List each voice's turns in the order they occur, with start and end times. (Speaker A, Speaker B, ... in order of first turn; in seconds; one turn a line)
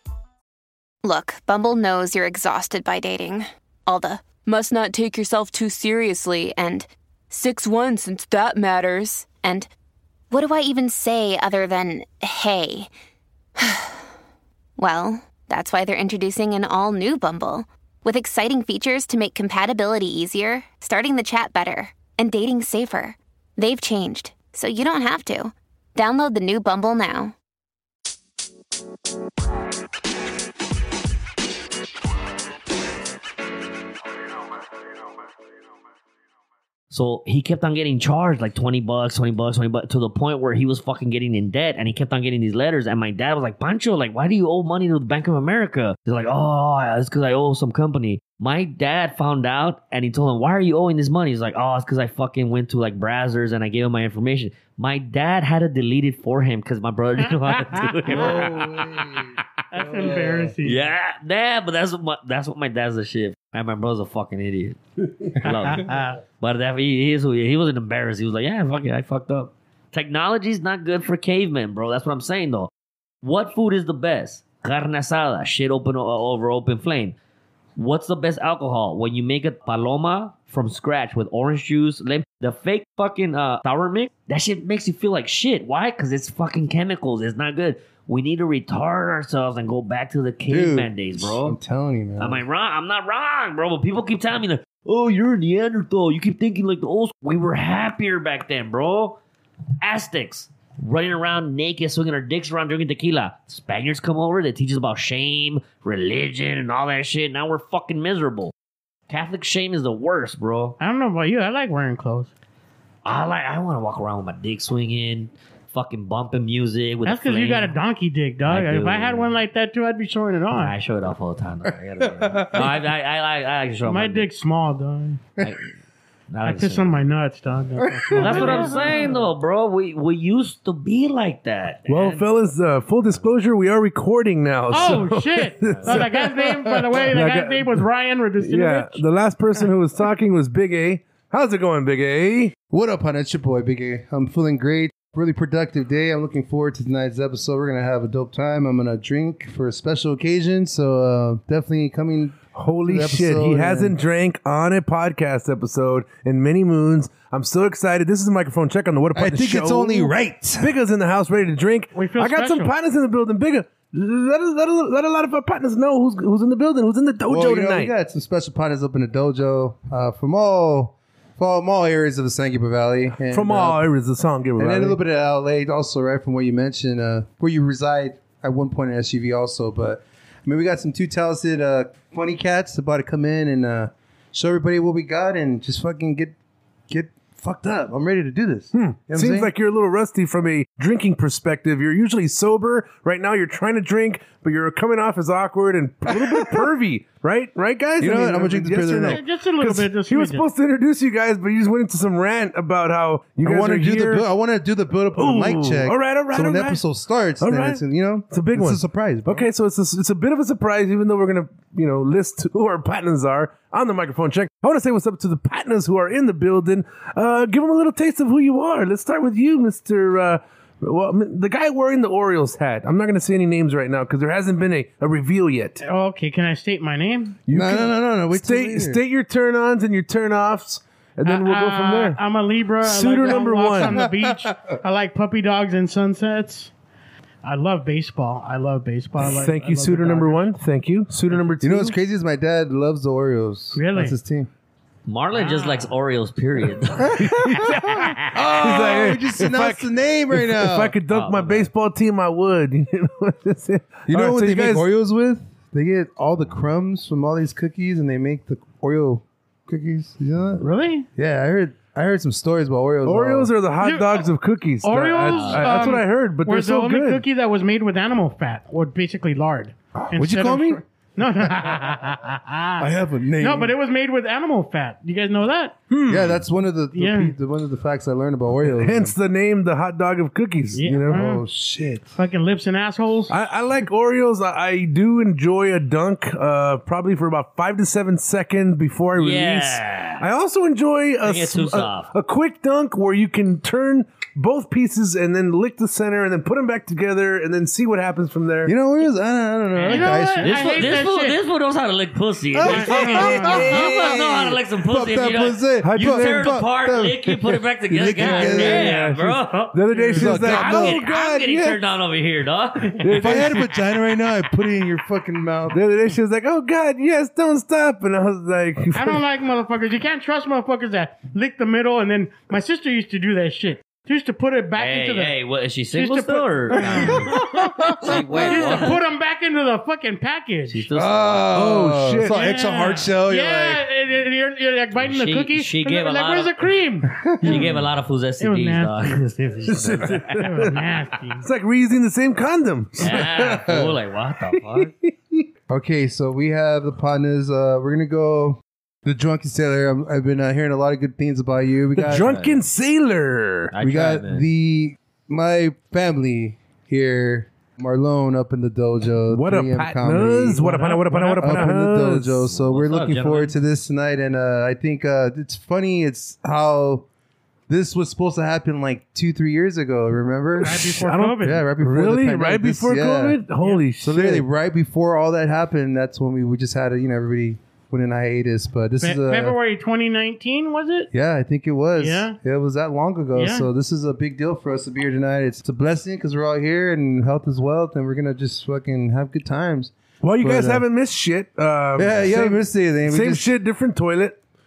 Speaker A: 1.0-9.7
Speaker A: 10.3-12.9
Speaker A: 13.6-14.0
Speaker A: 14.8-27.3
Speaker B: 36.9-59.0
Speaker C: 57.2-58.5
Speaker D: 58.1-60.5
Speaker C: 59.7-60.8
Speaker B: 60.6-64.8
Speaker B: 65.4-72.7
Speaker C: 65.4-66.2
Speaker B: 73.2-77.2
Speaker B: 77.8-91.6
Speaker D: 90.5-92.4
Speaker B: 92.2-99.2
Speaker B: 99.8-108.5
Speaker B: 109.1-110.8
Speaker C: 110.8-112.3
Speaker B: 113.0-117.8
Speaker C: 117.0-120.8
Speaker B: 118.5-119.3
Speaker B: 120.5-124.3
Speaker D: 122.0-122.7
Speaker C: 123.8-125.3
Speaker B: 125.4-125.7
Speaker B: 126.3-127.0
Speaker C: 126.4-129.3
Speaker D: 127.8-128.7
Speaker B: 128.2-132.2
Speaker E: 131.9-137.9
Speaker C: 134.7-139.0
Speaker B: 135.7-136.0
Speaker E: 138.4-142.5
Speaker D: 142.7-154.0
Speaker E: 152.5-167.9
Speaker D: 159.1-160.7
Speaker C: 161.9-162.7
Speaker D: 167.3-173.9
Speaker E: 173.2-175.0
Speaker D: 174.6-186.3
Speaker D: 186.9-189.5
Speaker E: 188.7-204.2
Speaker D: 198.0-199.2
Speaker C: 199.1-200.5
Speaker D: 203.4-209.5
Speaker E: 205.2-206.8
Speaker E: 207.4-225.8
Speaker C: 225.8-227.4
Speaker E: 227.5-232.2
Speaker D: 227.5-229.0
Speaker C: 231.2-236.7
Speaker E: 232.8-234.0
Speaker D: 233.3-234.7
Speaker C: 237.4-240.5
Speaker E: 239.2-242.0
Speaker D: 241.6-244.5
Speaker C: 243.7-244.2
Speaker B: 245.1-247.1
Speaker E: 247.1-254.9
Speaker D: 247.2-247.6
Speaker D: 248.3-251.0
Speaker B: 251.1-251.7
Speaker D: 254.1-263.5
Speaker C: 260.6-261.1
Speaker E: 263.1-267.2
Speaker C: 263.8-264.3
Speaker C: 264.8-275.7
Speaker B: 265.3-265.8
Speaker D: 270.1-270.8
Speaker D: 272.8-273.7
Speaker E: 275.9-276.4
Speaker D: 276.1-279.2
Speaker C: 276.9-277.4
Speaker E: 278.6-281.2
Speaker C: 280.7-281.4
Speaker D: 281.1-282.1
Speaker C: 282.2-283.4
Speaker E: 283.3-298.7
Speaker B: 289.2-290.2
Speaker B: 291.2-292.1
Speaker D: 298.6-300.9
Speaker C: 299.8-301.4
Speaker B: 299.9-309.8
Speaker D: 302.5-307.4
Speaker C: 302.6-303.8
Speaker E: 302.7-304.0
Speaker E: 305.8-306.6
Speaker E: 307.2-311.8
Speaker D: 307.9-309.0
Speaker C: 309.9-310.3
Speaker D: 310.1-311.0
Speaker B: 310.4-313.4
Speaker E: 313.0-313.7
Speaker D: 313.2-315.8
Speaker E: 315.7-319.2
Speaker C: 318.9-330.9
Speaker B: 324.8-327.3
Speaker D: 327.0-327.4
Speaker B: 328.0-329.0
Speaker B: 330.7-331.6
Speaker D: 330.9-333.8
Speaker E: 331.5-332.5
Speaker C: 332.2-337.2
Speaker B: 335.0-336.6
Speaker D: 337.2-337.7
Speaker E: 337.4-337.9
Speaker B: 337.4-339.2
Speaker C: 338.4-341.5
Speaker E: 339.7-340.8
Speaker E: 341.4-343.6
Speaker B: 343.0-344.9
Speaker D: 343.3-343.9
Speaker E: 344.7-345.5
Speaker D: 345.7-352.3
Speaker E: 352.0-353.7
Speaker B: 352.1-352.6
Speaker B: 353.7-354.5
Speaker D: 353.8-360.8
Speaker E: 359.3-362.4
Speaker C: 360.6-361.7
Speaker D: 361.4-367.1
Speaker B: 362.5-363.6
Speaker D: 367.7-373.4
Speaker E: 370.6-374.4
Speaker C: 370.6-371.6
Speaker D: 374.0-379.6
Speaker C: 379.0-381.1
Speaker D: 381.1-390.9
Speaker C: 381.9-382.4
Speaker C: 383.3-383.7
Speaker E: 390.2-394.4
Speaker D: 392.0-393.5